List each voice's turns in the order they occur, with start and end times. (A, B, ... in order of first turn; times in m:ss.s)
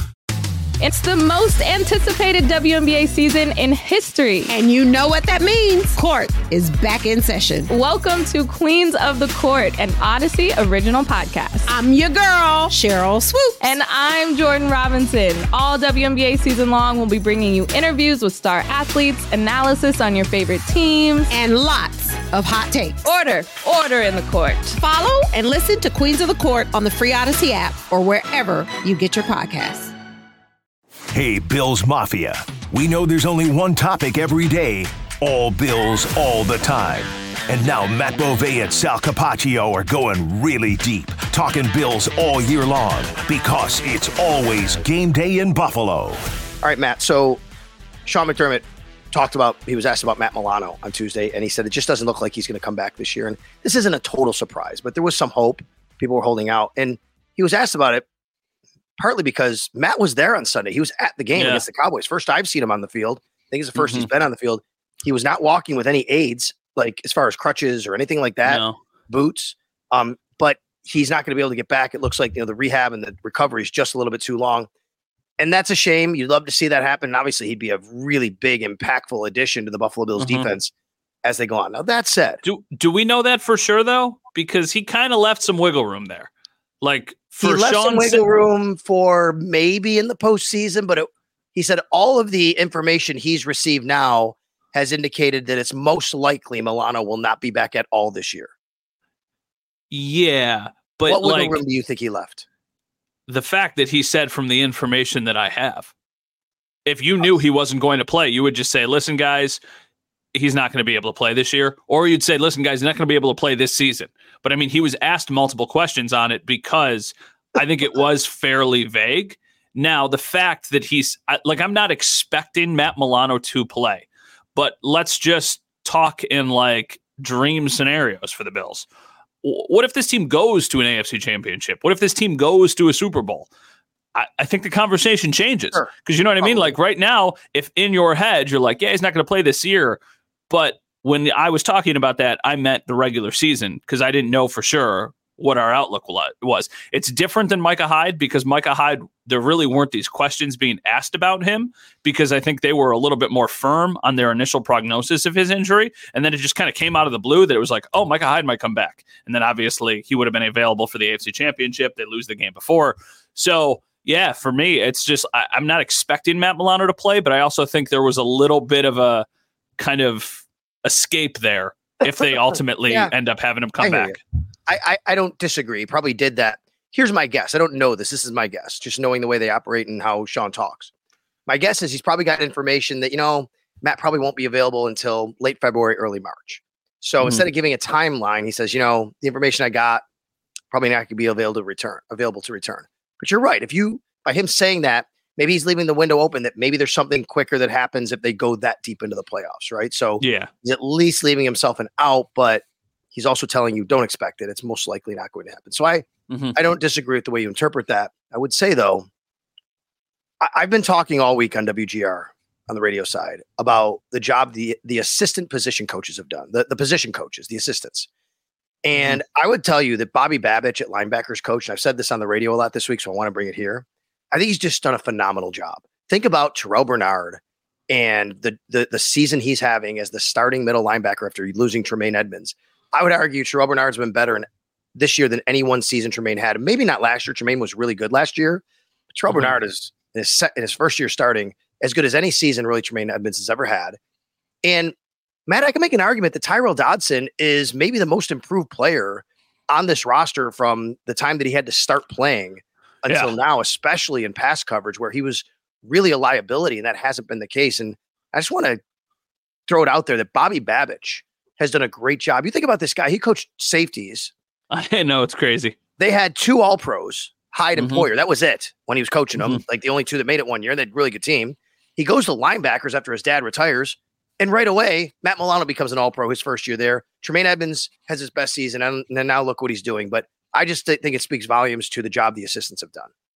0:00.8-0:04.6 A
0:04.5-0:07.7 B
0:07.7-0:11.8 A
0:11.7-0:13.6 B
0:13.6-0:21.3 A
0:21.3-0:23.0 B
0:23.0-0:24.8 A
0:24.8-0:29.9 B
0:31.1-0:46.2 C
0:46.6-0:47.4 D
0:48.1-0:58.0 D
0:59.0-1:14.7 D
1:01.4-1:01.6 E
1:03.8-1:04.1 E
1:08.4-1:08.8 E
1:15.4-1:20.7 D
1:20.2-1:20.5 E
1:21.2-1:22.4 D
1:22.4-1:26.3 E
1:26.8-1:28.2 E
1:27.4-1:38.5 D
1:39.9-1:41.6 E
1:41.1-1:42.4 D
1:43.3-1:45.9 E
1:46.9-1:49.6 E
1:50.3-2:08.9 E
2:09.4-2:13.5 E
2:14.2-2:20.0 E
2:16.4-2:16.7 D
2:20.5-2:49.3 E
2:49.8-2:54.2 E
2:53.8-2:54.2 D
2:54.7-3:00.9 D
3:01.5-3:10.0 D
3:07.2-3:07.5 E
3:10.7-3:29.1 D
3:20.2-3:20.5 E
3:26.3-3:26.6 E
3:30.4-3:38.1 D
3:38.8-4:04.0 D
3:39.0-3:39.2 E
3:59.3-3:59.6 E
4:04.6-4:04.9 D
4:05.5-4:18.8 D
4:13.1-4:13.3 E
4:19.7-4:24.3 D
4:24.7-4:25.8 E
4:26.0-4:43.1 D
4:27.8-4:28.1 E